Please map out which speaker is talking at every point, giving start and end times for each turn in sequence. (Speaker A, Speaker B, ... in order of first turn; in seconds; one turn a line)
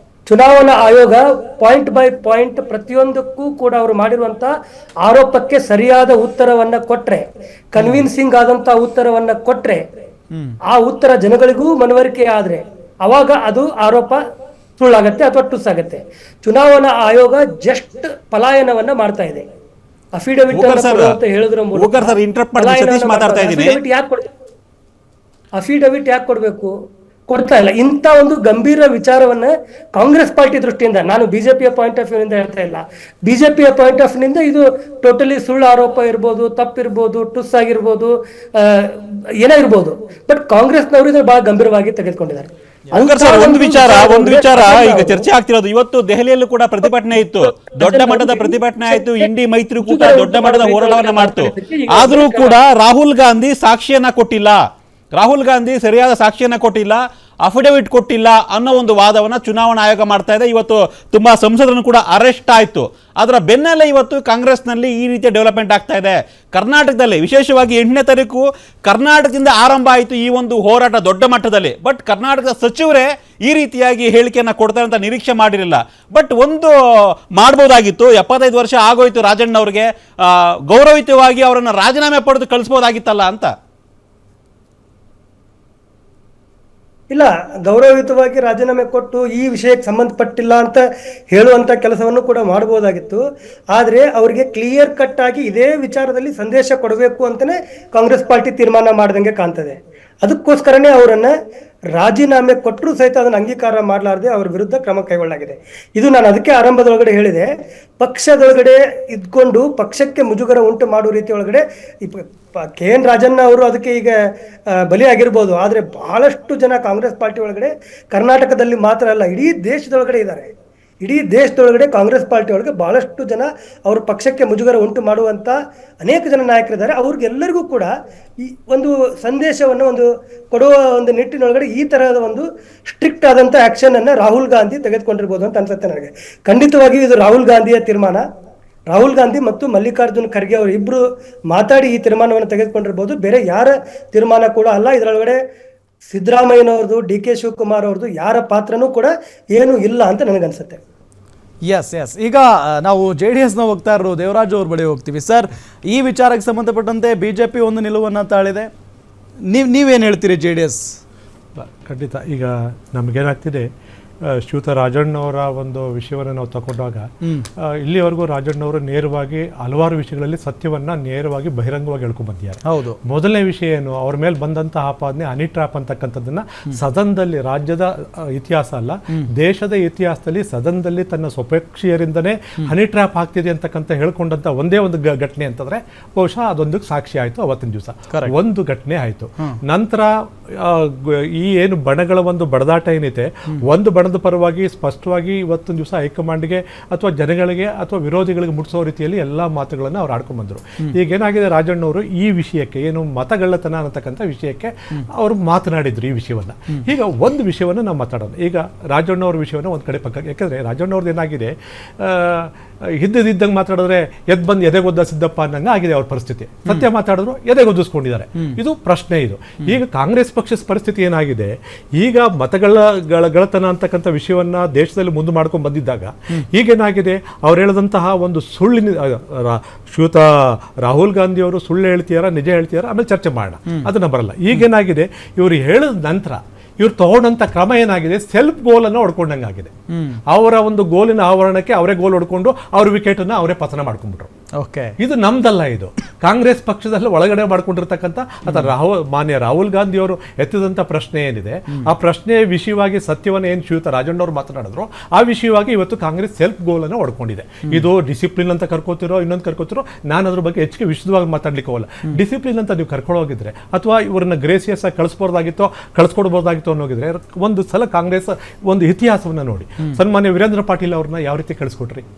Speaker A: 0.3-4.5
Speaker A: 5.0-9.8
Speaker B: 7.8-8.0
Speaker A: 10.7-14.2
Speaker A: 14.8-19.4
Speaker A: 20.1-24.2
Speaker C: 20.5-21.1
Speaker C: 21.7-23.8
Speaker A: 25.6-26.7
Speaker A: 27.3-45.3
Speaker C: 42.9-54.6
Speaker A: 47.8-49.3
Speaker A: 49.8-52.6
Speaker C: 55.1-76.7
Speaker C: 77.4-83.5
Speaker A: 87.1-101.3
Speaker A: 101.9-107.5
Speaker A: 108.0-112.2
Speaker A: 112.8-114.1
Speaker A: 114.9-120.5
Speaker A: 121.0-127.9
Speaker A: 128.4-138.2
Speaker A: 138.9-145.4
Speaker A: 146.1-150.8
Speaker B: 151.6-158.7
Speaker B: 159.5-161.0
Speaker D: 161.6-163.7
Speaker D: 164.2-167.1
Speaker D: 167.6-239.7
Speaker B: 172.6-173.0
Speaker B: 239.9-240.2
Speaker D: 240.3-244.3
Speaker B: 244.6-244.9
Speaker D: 245.0-272.1
Speaker B: 248.4-248.7